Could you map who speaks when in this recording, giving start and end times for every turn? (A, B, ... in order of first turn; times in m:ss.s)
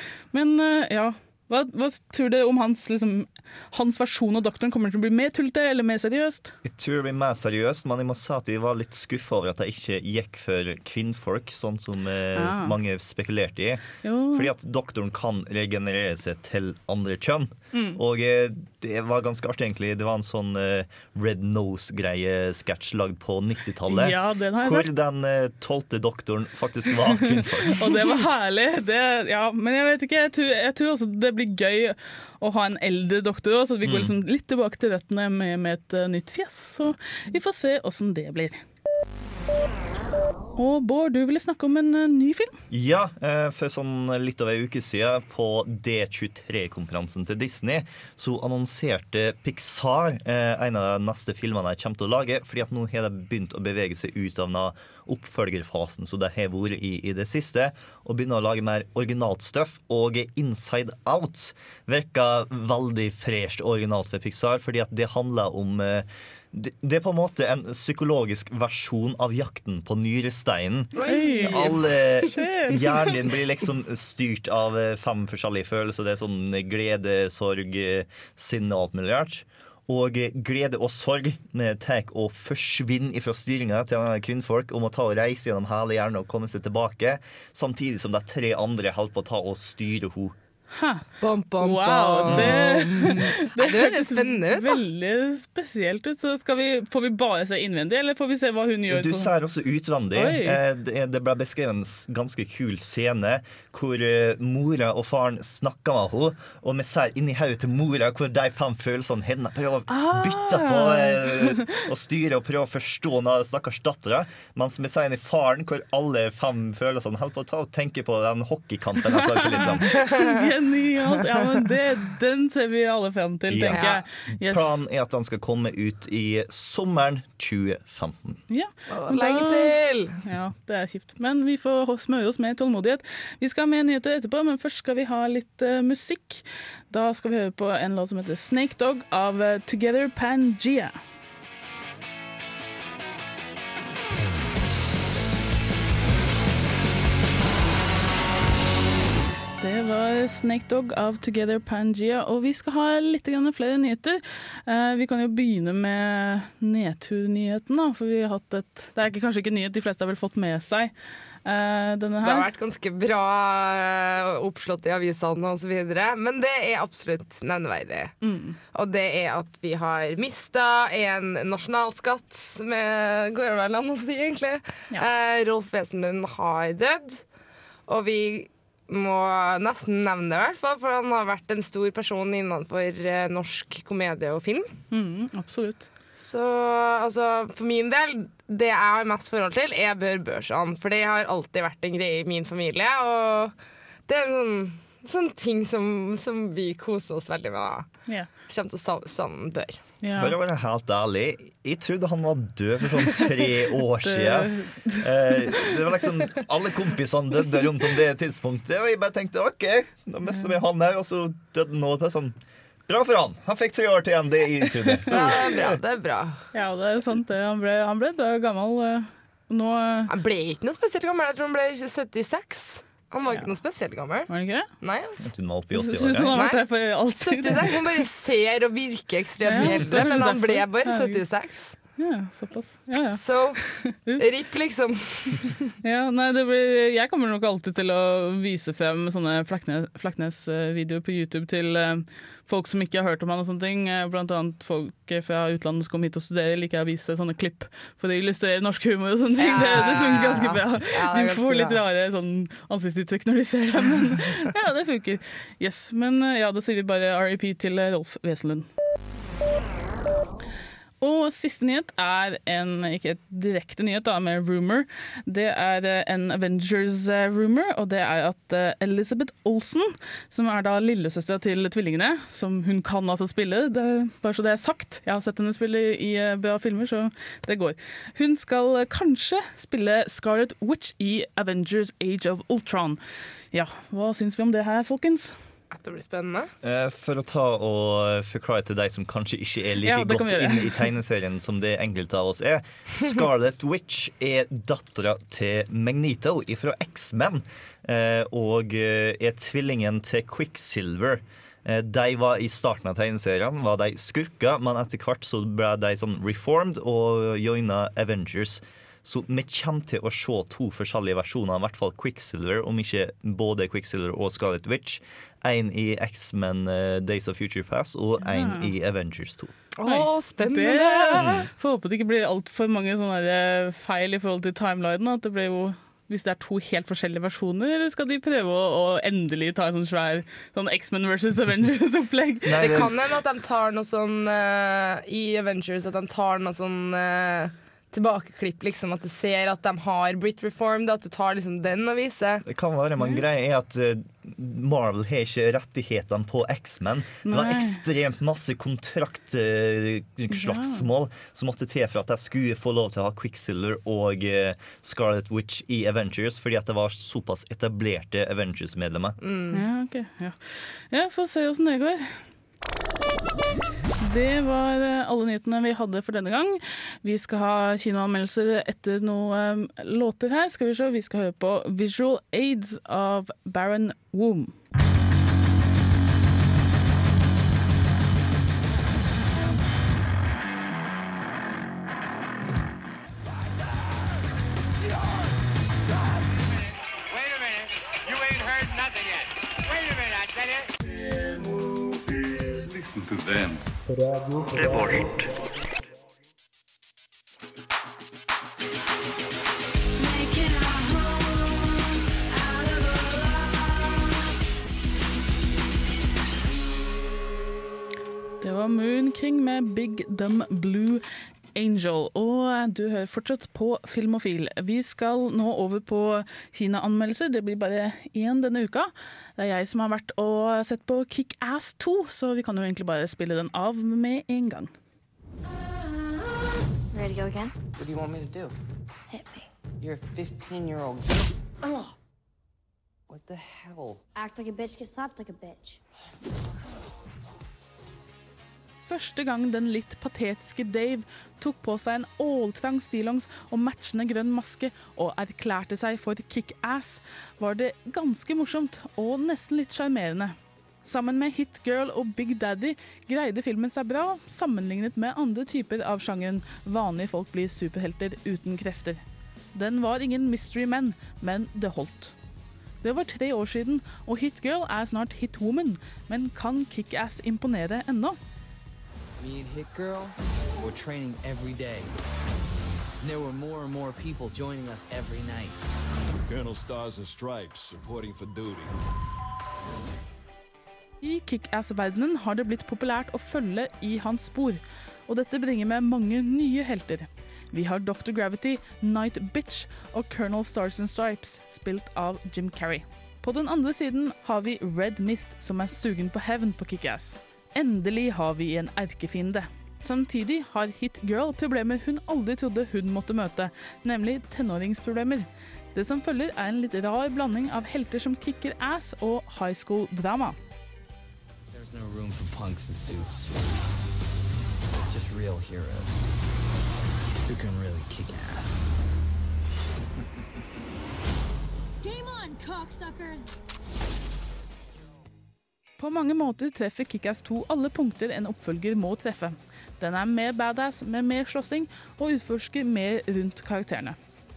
0:00.3-0:06.5 A
0:06.6-0:28.2 B
0:12.3-0:12.8 A
0:14.0-0:14.5 A
0:17.7-0:18.0 A
0:23.9-0:24.9 A
0:27.7-0:38.6 A
0:33.8-0:34.1 B
0:40.6-0:42.6 A
0:42.7-1:10.9 B
1:11.0-1:11.7 C
1:11.0-1:13.2 A
1:11.5-1:30.4 B
1:30.7-1:31.0 A
1:31.2-1:34.8 C
1:31.6-1:39.3 A
1:32.3-1:32.6 B
1:38.9-2:00.0 B
1:40.1-1:40.6 A
1:49.9-1:51.8 A
1:59.1-2:04.8 A
2:03.5-2:08.4 B
2:03.7-2:04.0 C
2:08.5-2:21.0 A
2:08.9-2:10.2 C
2:29.6-2:40.9 A
2:41.4-2:42.5 A
2:42.2-2:48.1 C
2:48.2-2:48.6 A
2:48.7-2:57.2 C
2:57.9-3:04.7 C
3:04.9-3:05.9 A
3:06.2-3:13.5 C
3:14.1-3:17.9 C
3:18.5-3:19.8 C
3:20.0-3:20.3 A
3:20.1-3:32.4 B
3:24.0-3:25.7 A
3:32.9-3:35.8 B
3:35.1-3:36.4 C
3:36.5-3:40.1 A
3:40.1-3:44.3 C
3:44.3-3:44.7 A
3:44.8-3:45.3 C
3:45.2-3:46.3 B
3:45.7-3:47.8 A
3:46.3-3:46.6 C
3:47.2-3:51.8 C
3:49.4-3:51.2 A
3:52.0-3:54.2 A
3:53.1-3:55.6 C
3:55.8-4:18.7 A
4:09.4-4:11.8 C
4:21.0-4:43.0 A
4:43.5-4:45.3 A
4:45.7-4:46.5 C
4:46.6-5:19.5 B
4:49.8-4:50.8 A
5:18.2-5:18.7 A
5:19.8-5:21.2 C
5:19.8-5:32.8 A
5:32.4-5:32.9 B
5:32.6-5:42.4 C
5:42.4-5:59.2 B
5:43.0-5:43.2 A
5:47.2-5:47.8 A
5:50.3-5:50.9 A
5:59.2-5:59.6 C
5:59.5-6:02.2 A
6:04.0-6:14.5 A
6:32.6-6:33.6 D
6:34.3-6:35.2 D
6:40.0-6:44.3 E
6:48.4-6:51.0 A
6:51.5-7:04.7 A
7:06.9-7:07.5 E
7:09.1-7:09.4 E
7:14.1-7:15.8 E
7:18.9-7:39.0 A
7:39.5-7:42.1 A
7:42.8-7:48.2 A
7:49.2-7:51.9 F
7:53.0-7:55.5 F
7:56.2-7:58.7 G
8:01.0-8:30.4 A
8:31.5-8:33.3 F
8:34.9-8:36.0 F
8:41.8-8:43.3 E
8:45.8-8:54.0 A